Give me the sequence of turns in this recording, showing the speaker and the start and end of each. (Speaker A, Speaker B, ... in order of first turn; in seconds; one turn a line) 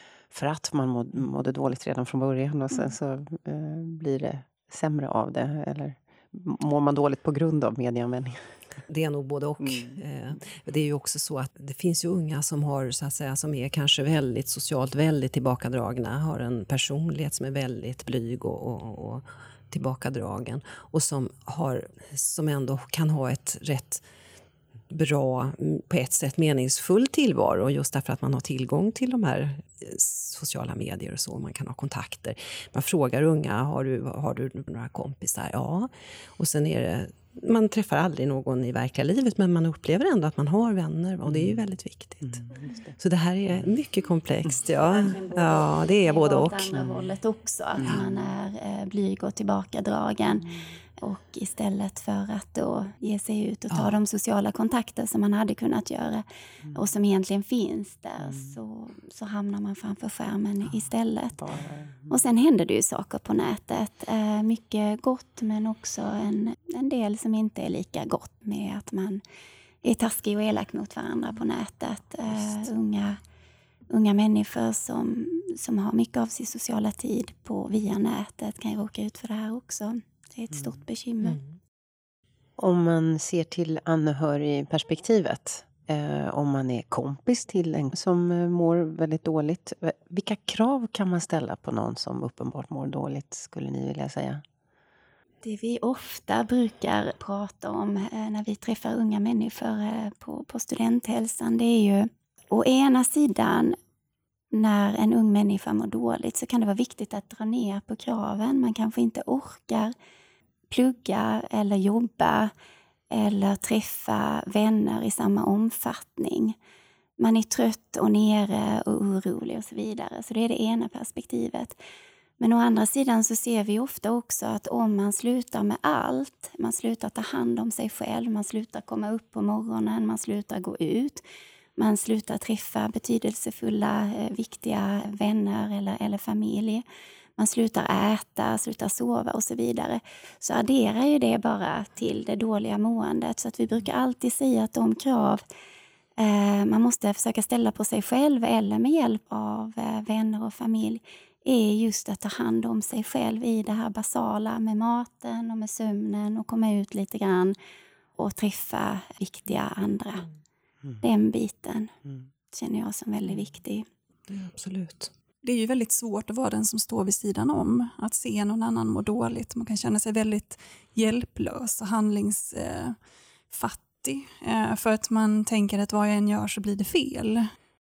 Speaker A: 0.3-8.4
Speaker B: 8.9-24.0
Speaker A: 9.6-9.9
Speaker B: 24.9-42.4
Speaker A: 41.3-41.6
Speaker B: 43.0-46.9
Speaker C: 44.7-61.4
Speaker A: 47.8-48.1
Speaker B: 53.7-54.0
Speaker A: 61.4-62.2
Speaker C: 62.1-69.2
Speaker C: 69.8-73.2
Speaker C: 73.9-81.4
Speaker A: 82.6-94.4
Speaker C: 95.4-103.8
Speaker C: 104.5-109.9
Speaker C: 110.7-112.5
Speaker C: 113.1-116.5
Speaker C: 117.2-121.8
Speaker C: 122.4-131.2
Speaker C: 131.8-136.8
Speaker C: 137.4-145.4
Speaker C: 146.2-157.5
Speaker C: 158.2-160.3
Speaker C: 161.0-161.9
Speaker C: 162.5-163.8
Speaker B: 164.3-165.1
Speaker D: 165.4-173.0
Speaker D: 173.5-177.5